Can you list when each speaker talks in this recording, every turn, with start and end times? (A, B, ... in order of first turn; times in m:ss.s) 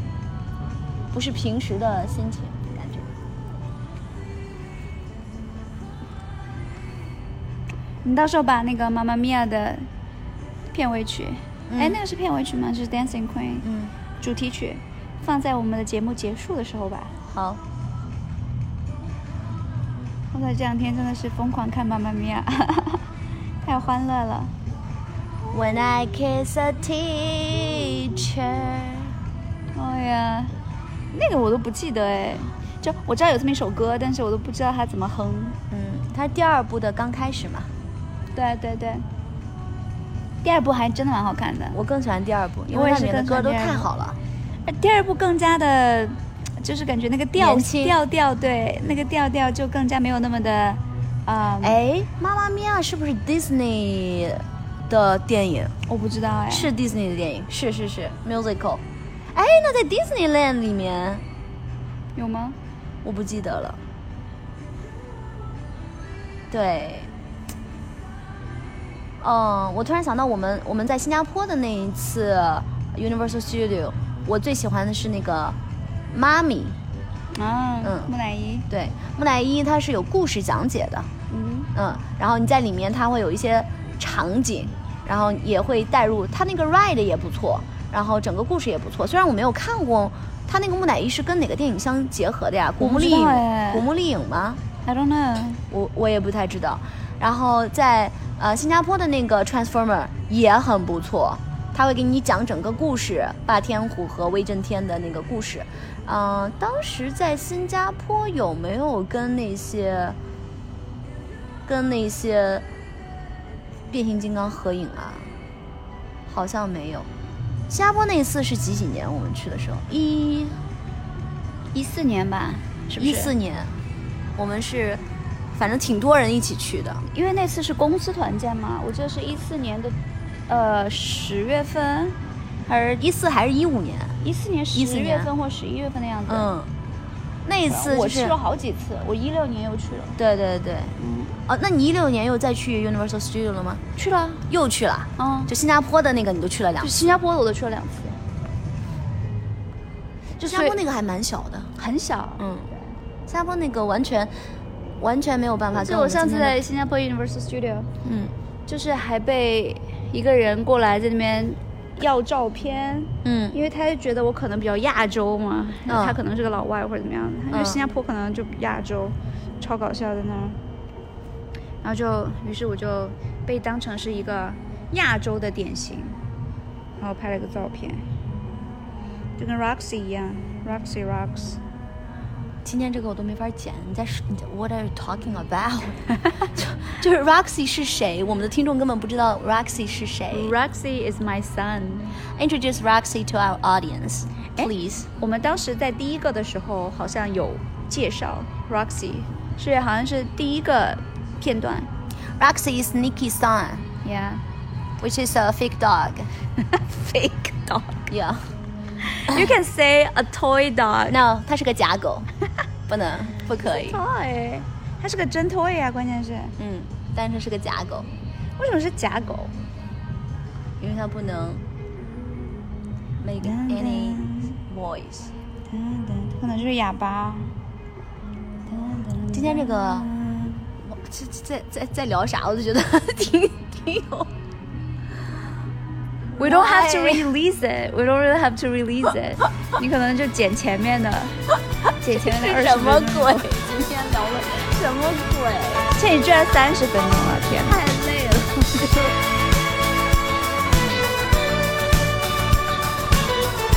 0:01.1-0:03.1 A
0:08.0-0:09.9 B
0:10.7-0:13.7 B
0:11.7-0:12.0 A
0:13.6-0:13.9 A
0:14.2-0:17.2 B
0:17.3-0:17.6 A
0:20.3-0:23.0 B
0:23.6-0:24.5 B
0:25.5-0:29.1 A
0:29.7-0:30.5 B
0:31.1-0:35.6 B
0:35.7-0:37.7 A
0:38.4-0:39.0 B
0:40.4-0:41.8 B
0:41.7-0:44.2 A
0:42.7-0:43.9 B
0:44.7-0:51.8 B
0:47.4-0:48.0 A
0:51.6-0:55.7 A
0:55.9-0:56.7 B
0:56.5-1:01.2 A
1:02.2-1:02.6 B
1:03.0-1:03.8 A
1:06.5-1:07.1 A
1:09.2-1:15.6 A
1:16.1-1:16.8 A
1:17.3-1:18.7 B
1:17.8-1:18.1 A
1:18.7-1:21.1 A
1:21.3-1:21.7 B
1:21.8-1:34.6 A
1:32.8-1:33.9 B
1:34.8-1:35.6 B
1:35.7-1:50.2 A
1:51.7-1:52.6 A
1:53.9-1:55.3 A
1:56.3-1:57.1 A
1:57.7-2:00.6 A
2:01.7-2:03.3 B
2:03.0-2:03.7 A
2:04.4-2:05.0 A
2:05.5-2:07.0 A
2:07.1-2:10.0 B
2:10.5-2:13.0 B
2:13.0-2:14.2 A
2:14.2-2:16.5 B
2:14.7-2:15.3 A
2:16.3-2:16.7 A
2:17.4-2:18.4 A
2:17.7-2:20.2 B
2:20.2-2:20.9 A
2:21.0-2:21.3 B
2:21.5-2:23.8 A
2:24.0-2:24.4 B
2:24.5-2:27.0 A
2:25.2-2:25.5 B
2:26.8-2:28.2 B
2:30.4-2:30.8 B
2:30.4-2:31.7 A
2:31.8-2:32.5 B
2:32.4-2:32.7 A
2:33.3-2:34.3 A
2:35.0-2:36.6 A
2:35.7-2:37.9 B
2:38.0-2:38.3 A
2:38.7-2:50.6 B
2:43.2-2:43.6 A
2:45.9-2:46.2 A
2:47.5-2:47.8 A
2:51.8-2:56.2 B
2:57.0-2:58.0 B
2:59.4-3:01.6 B
3:02.6-3:10.6 A
3:10.3-3:12.1 B
3:12.4-3:15.1 A
3:14.6-3:21.9 B
3:22.4-3:23.8 A
3:24.0-3:24.4 B
3:25.0-3:26.3 A
3:26.6-3:28.1 B
3:28.1-3:28.5 A
3:29.0-3:31.2 B
3:31.1-3:32.3 A
3:32.9-3:34.0 A
3:33.6-3:36.5 B
3:36.6-3:38.1 A
3:38.6-3:39.5 B
3:40.8-3:41.6 A
3:43.2-3:45.3 A
3:43.4-3:44.6 B
3:45.7-3:47.5 B
3:48.7-3:50.6 B
3:49.3-3:50.1 A
3:50.8-3:54.3 A
3:56.4-3:57.3 A
3:56.4-4:01.4 B
4:02.0-4:03.5 B
4:02.1-4:05.9 A
4:06.0-4:07.8 B
4:07.6-4:09.3 A